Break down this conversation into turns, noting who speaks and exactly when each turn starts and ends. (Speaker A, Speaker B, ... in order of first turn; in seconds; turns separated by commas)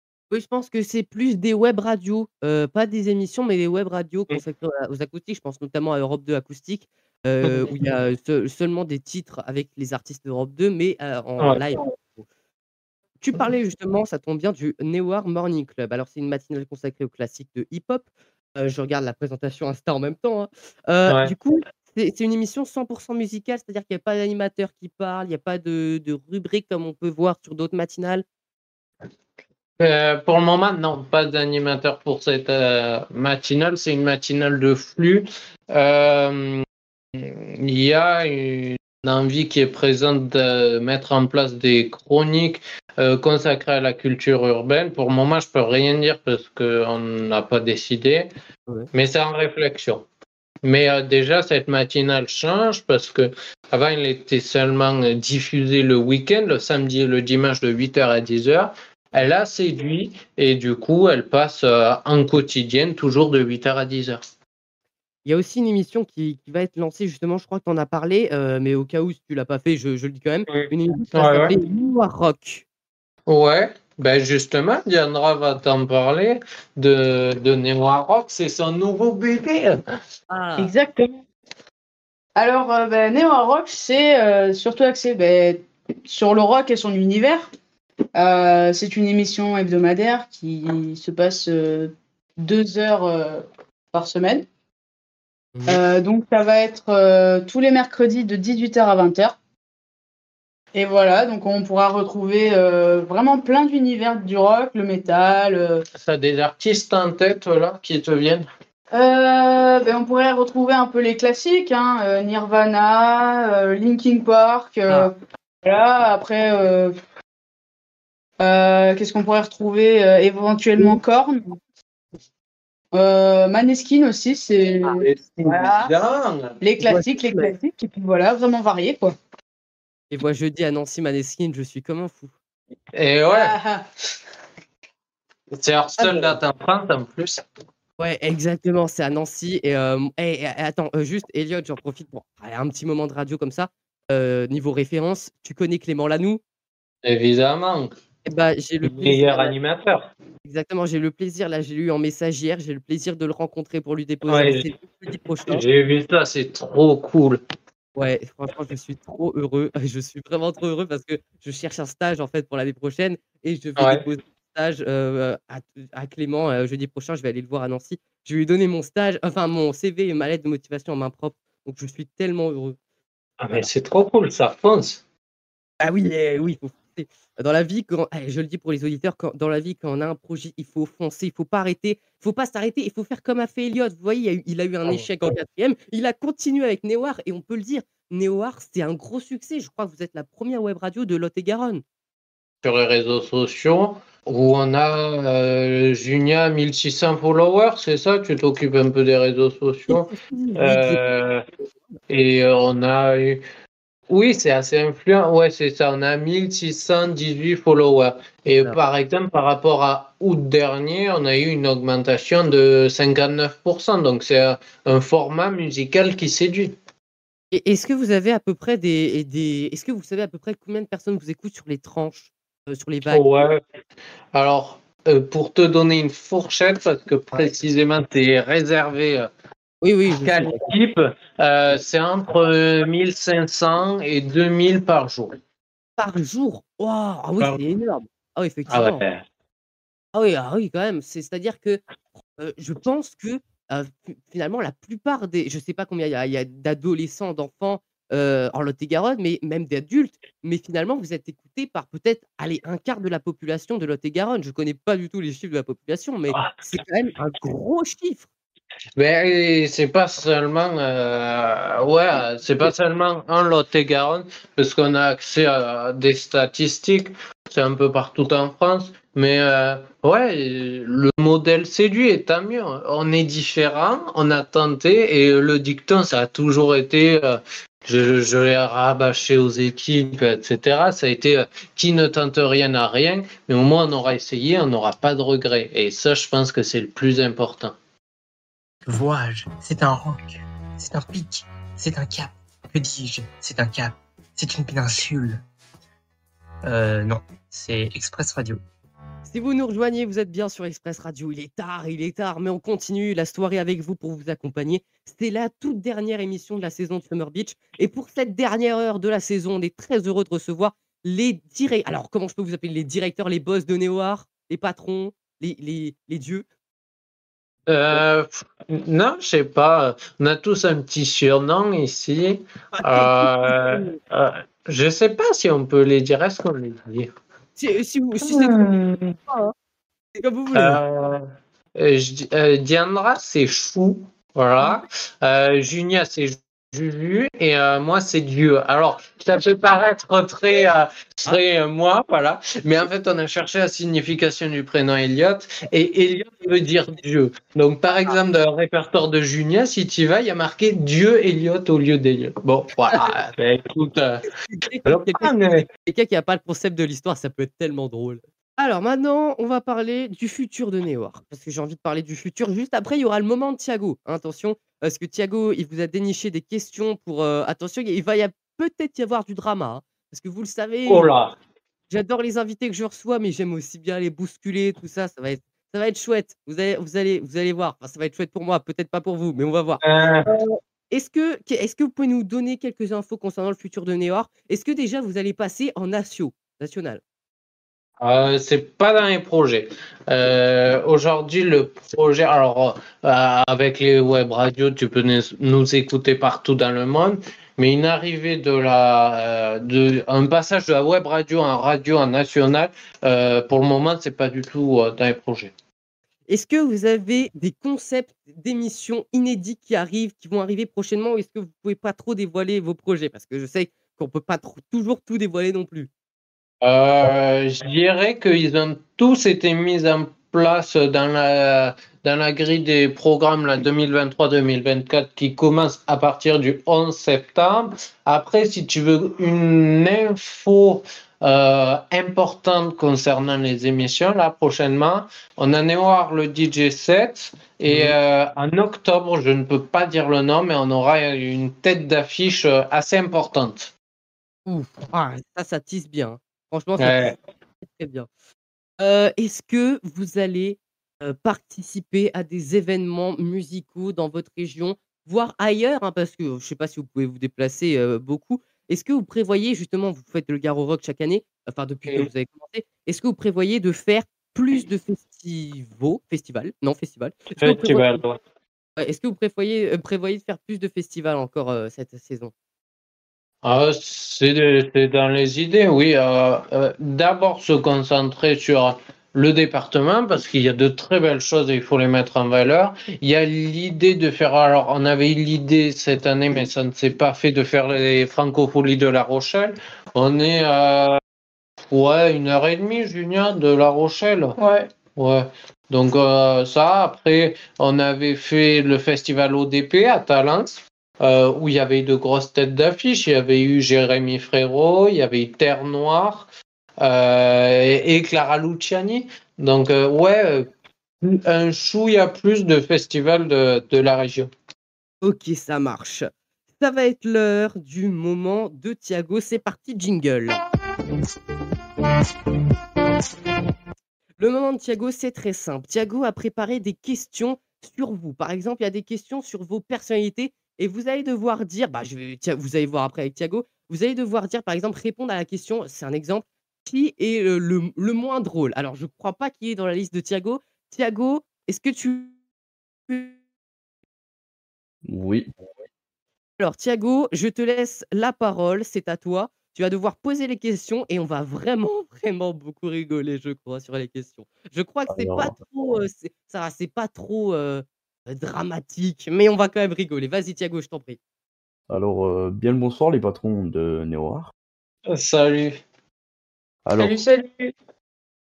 Speaker A: 0.3-12.2, Speaker B: 7.5-7.7, Speaker B: 11.4-11.9, Speaker A: 13.2-28.2, Speaker B: 21.1-21.3, Speaker B: 29.8-36.6, Speaker B: 37.2-48.3, Speaker B: 48.9-50.1, Speaker B: 50.6-64.2, Speaker A: 65.2-72.7, Speaker B: 70.5-71.6, Speaker B: 73.3-79.8, Speaker A: 80.3-80.7, Speaker C: 80.6-81.1, Speaker C: 82.4-87.5, Speaker C: 88.1-94.5, Speaker A: 95.5-95.8, Speaker C: 95.7-99.4, Speaker C: 100.7-105.9, Speaker B: 106.0-108.5, Speaker C: 108.9-115.1, Speaker C: 115.6-117.0, Speaker C: 118.4-121.6, Speaker C: 122.9-125.9, Speaker B: 124.8-126.6, Speaker C: 126.6-129.2, Speaker A: 126.8-127.5, Speaker A: 130.1-132.3, Speaker B: 132.9-133.6, Speaker C: 133.3-133.9, Speaker B: 135.5-137.4, Speaker A: 136.0-136.3, Speaker A: 138.0-146.4, Speaker B: 147.0-147.9, Speaker A: 148.3-149.5, Speaker B: 148.8-150.1, Speaker A: 150.4-155.6, Speaker B: 154.3-154.7, Speaker B: 155.5-157.4, Speaker A: 158.0-172.8, Speaker B: 163.8-164.0, Speaker B: 173.4-175.0, Speaker A: 175.8-191.8, Speaker B: 192.6-201.4, Speaker A: 199.9-201.2, Speaker B: 202.1-203.4, Speaker B: 204.1-216.8, Speaker A: 217.5-223.3, Speaker B: 223.1-223.6, Speaker B: 224.3-229.3, Speaker A: 229.8-230.7, Speaker B: 230.1-235.3, Speaker A: 236.0-239.0, Speaker B: 238.7-239.2, Speaker A: 240.1-241.8, Speaker A: 242.4-258.3, Speaker B: 259.0-287.8, Speaker D: 288.9-295.4, Speaker D: 296.6-298.6, Speaker A: 299.2-316.4, Speaker B: 317.7-327.1, Speaker A: 322.8-324.0, Speaker A: 327.6-329.5, Speaker E: 328.2-329.1, Speaker A: 330.2-330.8, Speaker B: 330.5-331.2, Speaker B: 331.8-354.3, Speaker A: 352.9-353.2, Speaker A: 354.5-371.1, Speaker B: 354.9-355.7, Speaker B: 370.9-371.4, Speaker A: 371.9-387.0, Speaker B: 379.8-380.3, Speaker B: 388.0-405.5, Speaker A: 406.3-415.9, Speaker B: 416.6-443.7, Speaker A: 437.7-438.0, Speaker A: 444.5-448.1, Speaker B: 446.8-447.1, Speaker A: 448.8-468.0, Speaker B: 467.4-468.2, Speaker A: 468.8-472.3, Speaker B: 473.4-491.0, Speaker B: 491.7-494.4, Speaker E: 494.4-494.7, Speaker B: 495.0-506.3, Speaker B: 506.8-510.5, Speaker B: 511.0-514.3, Speaker A: 515.0-516.1, Speaker A: 516.6-520.4, Speaker A: 524.2-542.1, Speaker A: 542.9-543.1, Speaker F: 544.9-545.3, Speaker A: 546.4-561.0, Speaker F: 554.9-555.4, Speaker F: 561.7-564.3, Speaker B: 564.9-565.6, Speaker F: 566.7-567.0, Speaker E: 566.8-567.5